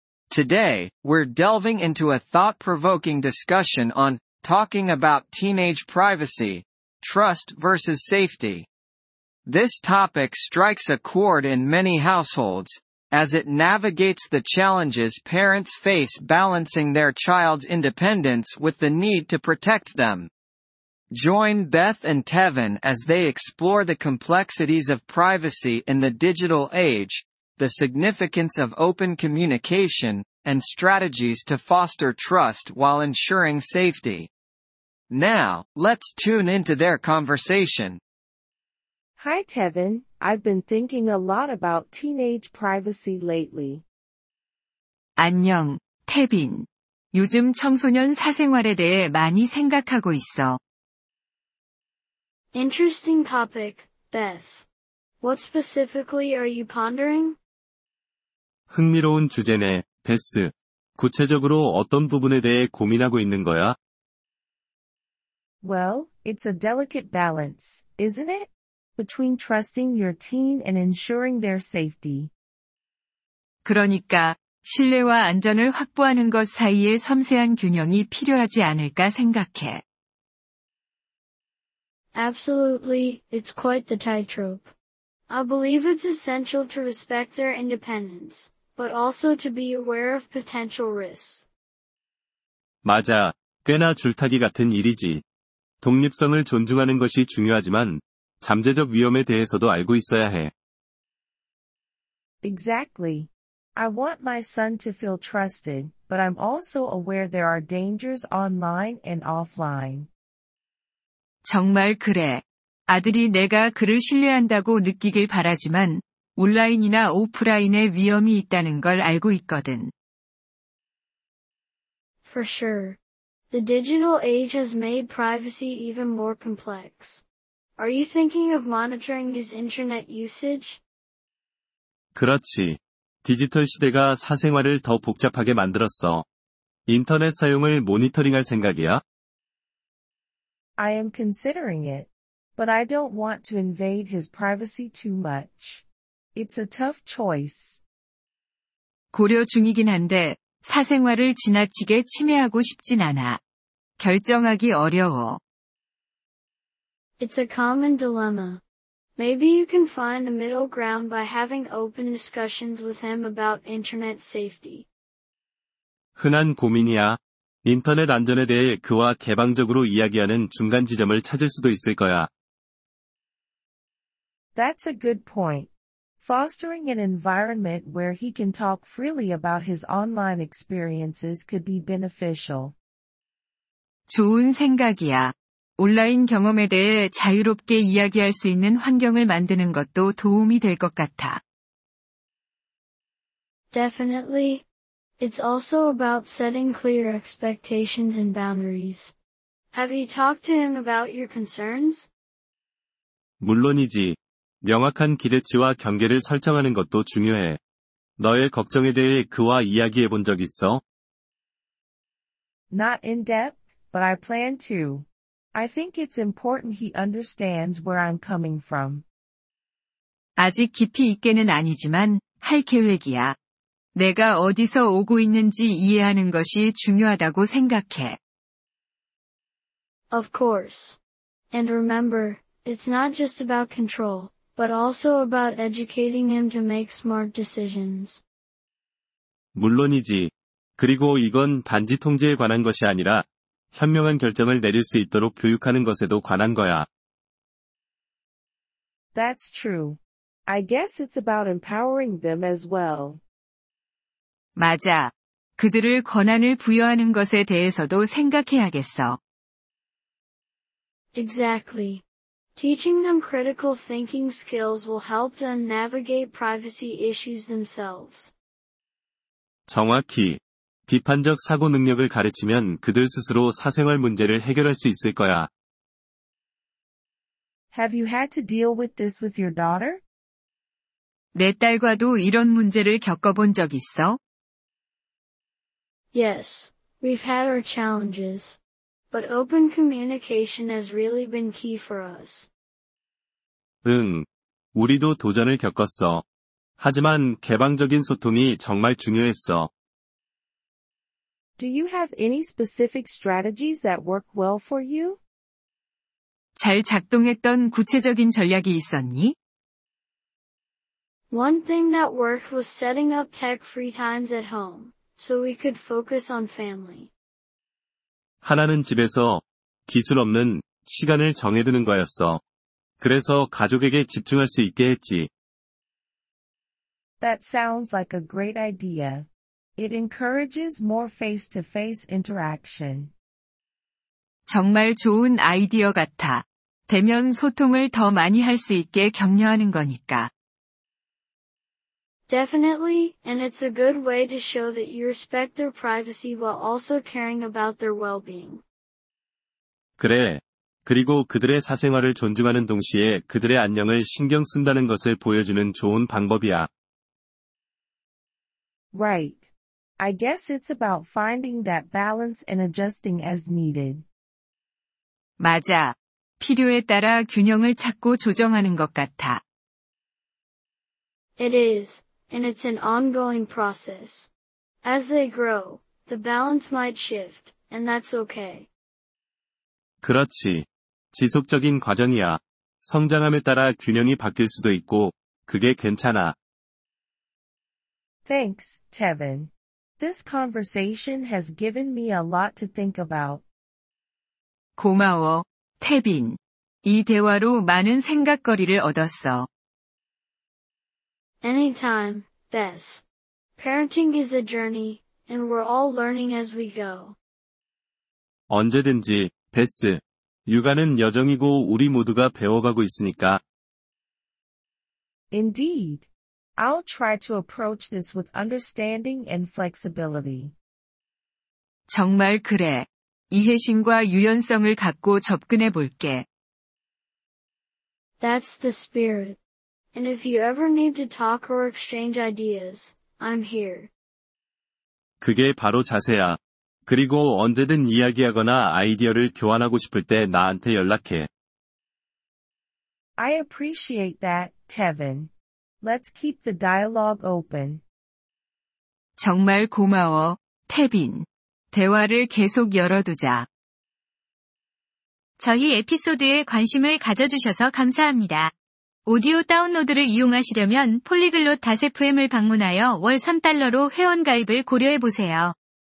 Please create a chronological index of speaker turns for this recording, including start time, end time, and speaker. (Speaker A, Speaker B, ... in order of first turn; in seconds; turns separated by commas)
Speaker A: 0.3-8.7, Speaker A: 9.4-20.3, Speaker A: 21.1-34.3, Speaker A: 35.1-38.0, Speaker B: 39.2-43.8, Speaker C: 45.2-50.6, Speaker D: 52.5-54.7, Speaker D: 55.2-57.4, Speaker E: 58.7-63.8, Speaker B: 65.6-72.3, Speaker C: 73.6-79.8, Speaker D: 82.1-84.7, Speaker D: 85.3-91.5, Speaker E: 92.8-95.2, Speaker E: 95.8-100.5, Speaker B: 102.4-110.1, Speaker C: 111.4-119.9, Speaker D: 122.2-123.0, Speaker D: 123.5-127.2, Speaker D: 127.8-130.8, Speaker E: 132.1-136.2, Speaker E: 136.9-139.0, Speaker B: 140.8-147.8, Speaker C: 149.1-153.4, Speaker C: 154.0-155.4, Speaker D: 157.2-158.6, Speaker D: 159.2-164.9, Speaker E: 166.2-172.3, Speaker B: 174.5-182.8, Speaker C: 184.1-191.4, Speaker D: 193.7-194.7, Speaker D: 195.2-199.1, Speaker D: 199.7-202.1, Speaker E: 203.4-207.6, Speaker E: 208.2-210.8, Speaker B: 212.7-219.0, Speaker C: 220.4-223.3, Speaker C: 223.9-228.2, Speaker D: 230.1-231.0, Speaker D: 231.5-238.2, Speaker E: 239.5-246.9, Speaker B: 249.1-253.2, Speaker C: 254.6-259.2, Speaker D: 261.1-262.0, Speaker D: 262.6-268.3, Speaker E: 269.7-275.5, Speaker B: 277.7-280.0, Speaker C: 281.3-284.2, Speaker D: 286.1-288.6, Speaker D: 289.1-292.5, Speaker E: 293.8-296.2, Speaker E: 296.8-299.7, Speaker B: 301.6-305.2, Speaker C: 306.6-309.3, Speaker D: 311.3-317.1, Speaker E: 318.4-322.4, Speaker E: 323.0-325.3, Speaker B: 327.2-333.1, Speaker C: 334.5-340.3, Speaker D: 342.3-348.6, Speaker E: 350.0-356.7, Speaker B: 358.9-364.0, Speaker C: 365.4-369.4, Speaker D: 371.4-374.3, Speaker D: 374.8-378.7, Speaker E: 380.0-386.3, Speaker B: 388.2-393.4, Speaker C: 394.8-399.5, Speaker D: 401.4-403.0, Speaker D: 403.6-407.2, Speaker E: 408.5-413.4, Speaker B: 415.3-420.5, Speaker C: 421.9-426.2, Speaker D: 428.2-429.4, Speaker D: 429.9-433.9, Speaker E: 435.2-441.3, Speaker B: 443.2-447.8, Speaker C: 449.2-453.4, Speaker F: 455.4-458.5, Speaker F: 459.1-465.5